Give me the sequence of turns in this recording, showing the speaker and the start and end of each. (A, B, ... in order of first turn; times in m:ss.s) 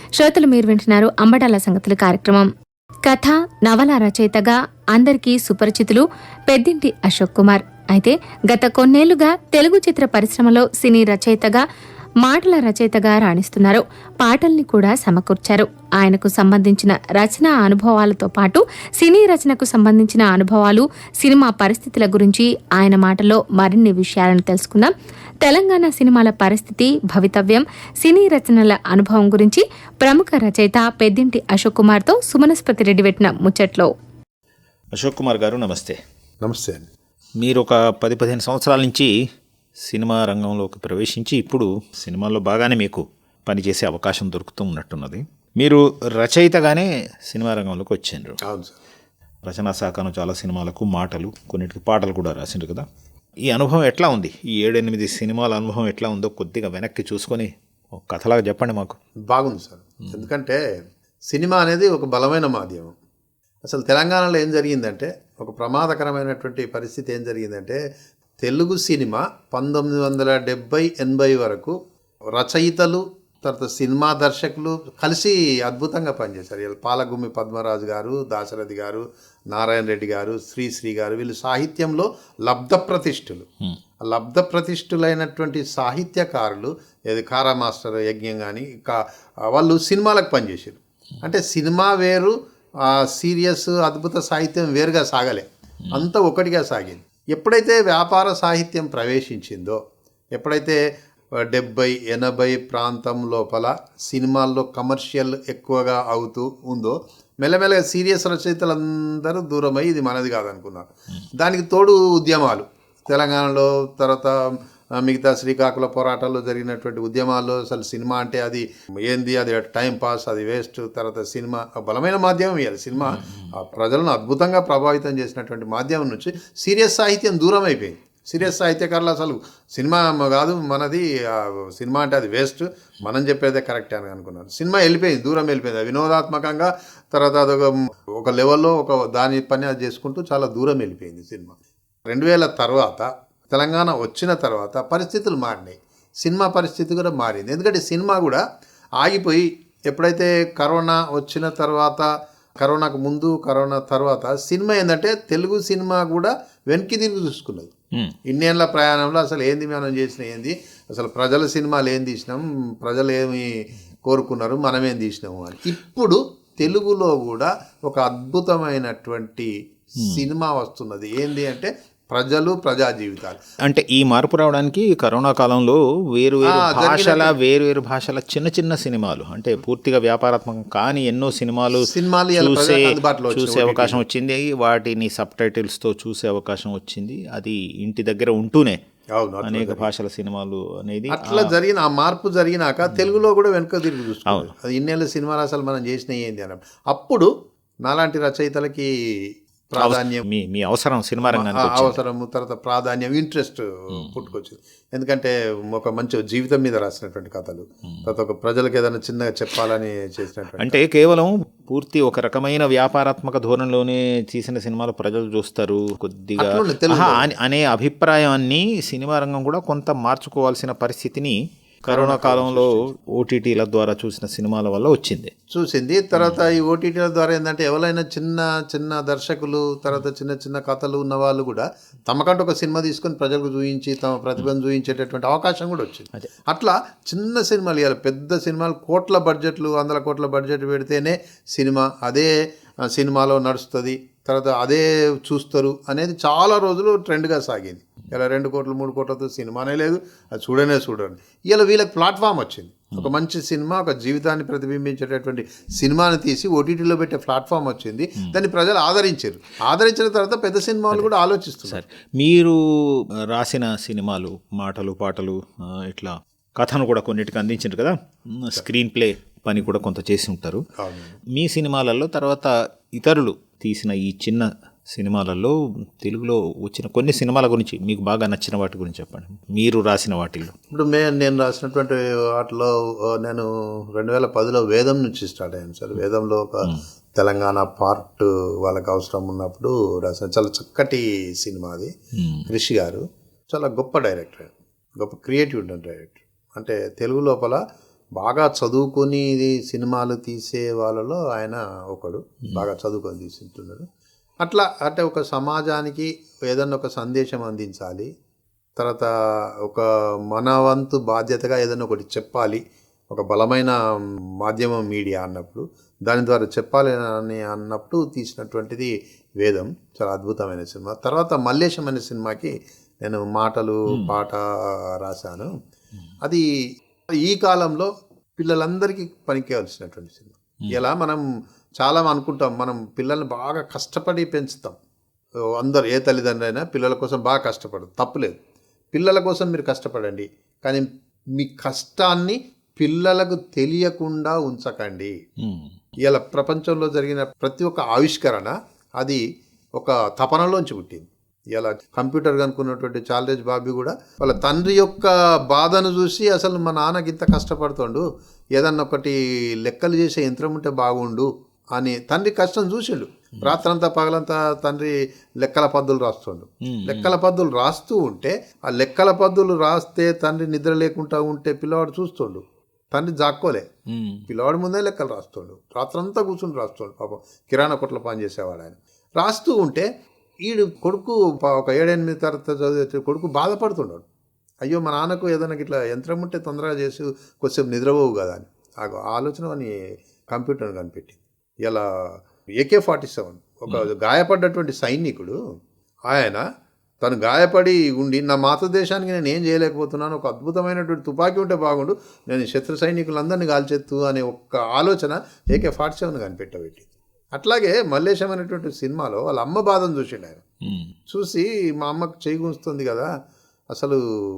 0:00.2-0:02.5 A
0:03.1-0:11.6 A
0:12.2-0:24.9 A
0:25.4-0:33.9 A
0:34.9-0:36.0 B
0:36.4-0:36.9 C
0:37.4-0:39.1 B
0:39.9-0:48.4 B
0:48.4-0:48.8 C
0:49.4-0:52.8 B
0:53.4-0:59.0 B
0:59.3-1:00.6 C
1:01.3-1:02.9 C
1:03.6-1:07.8 C
1:08.4-1:11.8 C
1:12.3-1:23.5 C
1:24.0-1:32.3 C
1:32.8-1:39.8 C
1:40.4-1:40.8 C
1:41.5-2:21.5 C
2:02.9-2:03.5 B
2:22.1-2:28.4 C
2:29.0-2:32.0 C
2:32.6-2:37.7 C
2:38.3-2:43.5 C
2:44.0-2:53.4 C
2:50.0-2:50.3 B
2:53.6-3:08.8 B
2:56.4-2:57.4 C
3:01.8-3:04.0 C
3:09.1-3:09.9 C
3:09.4-3:11.5 B
3:11.1-3:17.3 C
3:17.8-3:18.9 C
3:19.7-3:20.2 C
3:19.8-3:22.0 B
3:21.3-3:30.8 C
3:24.0-3:24.3 B
3:30.6-3:45.3 B
3:36.4-3:37.3 C
3:41.9-3:42.9 C
3:45.5-4:02.3 C
3:46.2-3:46.5 B
4:02.8-4:21.8 C
4:21.6-4:22.6 B
4:23.3-4:30.6 B
4:30.8-4:31.2 C
4:31.4-4:40.5 B
4:40.7-4:51.9 C
4:52.2-4:52.4 B
4:52.5-4:57.6 C
4:58.2-5:03.9 C
5:04.4-5:08.1 C
5:08.8-5:09.1 C
5:09.6-5:12.6 C
5:13.1-5:13.8 C
5:14.4-5:24.4 C
5:23.9-5:24.2 B
5:25.0-5:25.5 C
5:27.2-5:31.2 C
5:31.8-5:34.8 C
5:35.6-5:38.4 C
5:38.9-5:40.9 C
5:41.4-5:45.1 C
5:45.4-5:45.7 B
5:46.0-5:49.2 C
5:49.8-5:58.0 C
5:58.6-6:12.4 C
6:06.6-6:07.1 B
6:12.9-6:13.6 C
6:13.9-6:14.2 B
6:14.3-6:19.9 C
6:20.5-6:24.0 C
6:24.6-6:29.7 C
6:30.3-6:35.4 C
6:36.1-6:36.4 C
6:37.0-6:50.4 C
6:50.6-6:50.9 B
6:51.1-6:53.1 C
6:53.7-6:54.0 C